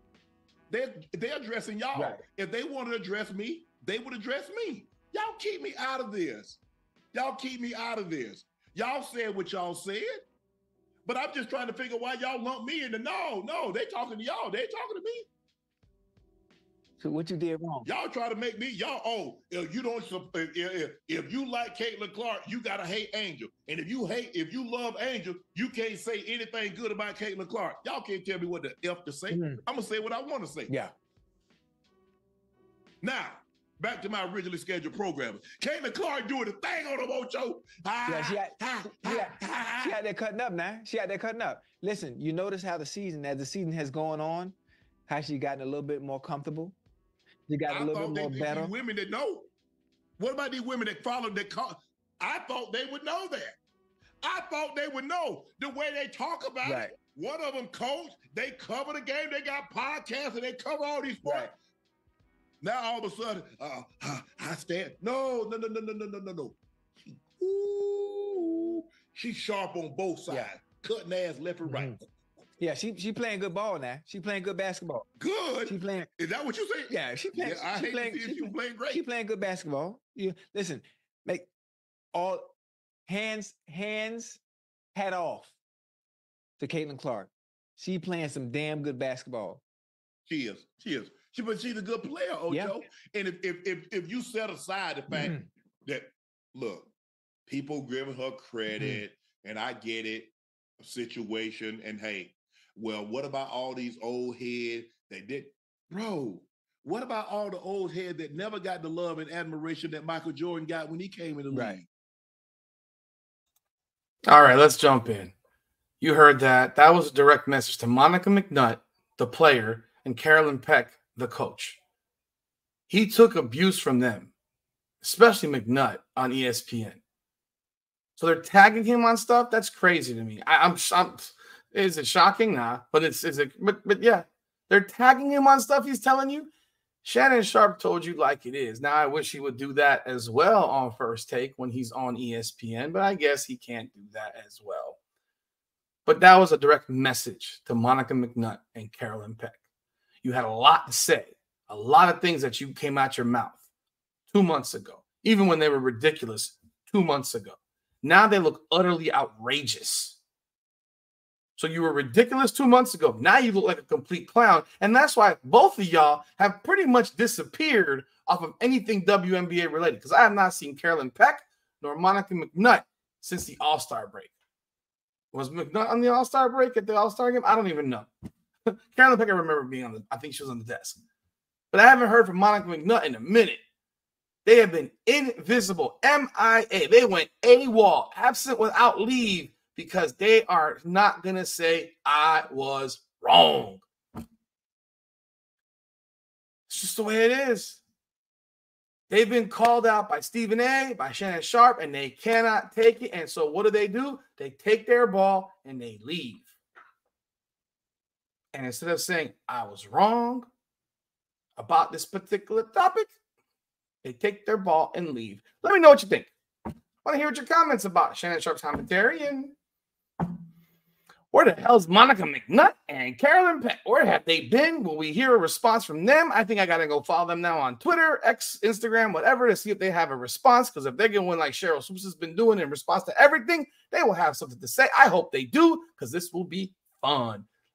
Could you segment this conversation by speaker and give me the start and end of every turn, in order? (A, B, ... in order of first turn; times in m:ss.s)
0:00.7-0:06.6 A
0:01.9-0:02.2 B
0:07.1-0:10.3 A
0:11.0-0:15.3 A
0:17.0-0:17.9 B
0:17.8-0:30.7 A
0:29.3-0:29.6 B
0:30.7-0:30.9 B
0:33.0-0:40.0 A
0:38.1-0:44.6 B
0:45.1-0:46.8 B
0:47.5-0:48.7 B
0:47.7-0:49.5 A
0:50.2-0:53.6 A
0:54.2-1:01.5 A
0:56.6-0:56.9 B
1:01.2-1:01.5 B
1:02.6-1:12.0 A
1:11.6-1:12.0 B
1:12.6-1:15.1 B
1:15.2-1:19.0 A
1:15.6-1:16.1 B
1:16.9-1:21.5 B
1:22.1-1:22.6 B
1:23.1-1:24.4 B
1:25.0-1:25.6 B
1:26.6-1:29.6 B
1:30.3-1:36.9 A
1:32.5-1:32.8 B
1:35.1-1:35.5 B
1:37.5-1:51.9 A
1:38.7-1:39.0 B
1:51.5-1:51.8 B
1:54.3-1:55.4 C
1:56.0-2:01.8 C
2:02.9-2:04.3 C
2:05.0-2:07.0 C
2:08.2-2:16.5 C
2:17.0-2:25.0 C
2:26.1-2:29.6 C
2:30.2-2:33.6 C
2:34.3-2:40.2 C
2:41.6-2:54.3 C
2:55.3-2:58.1 C
2:58.7-3:01.0 C
3:01.7-3:03.6 C
3:04.4-3:13.8 C
3:16.7-3:17.8 C
3:19.1-3:26.5 C
3:28.5-3:30.5 C
3:31.6-3:33.2 C
3:34.0-3:36.3 C
3:37.0-3:39.6 C
3:41.3-3:57.5 C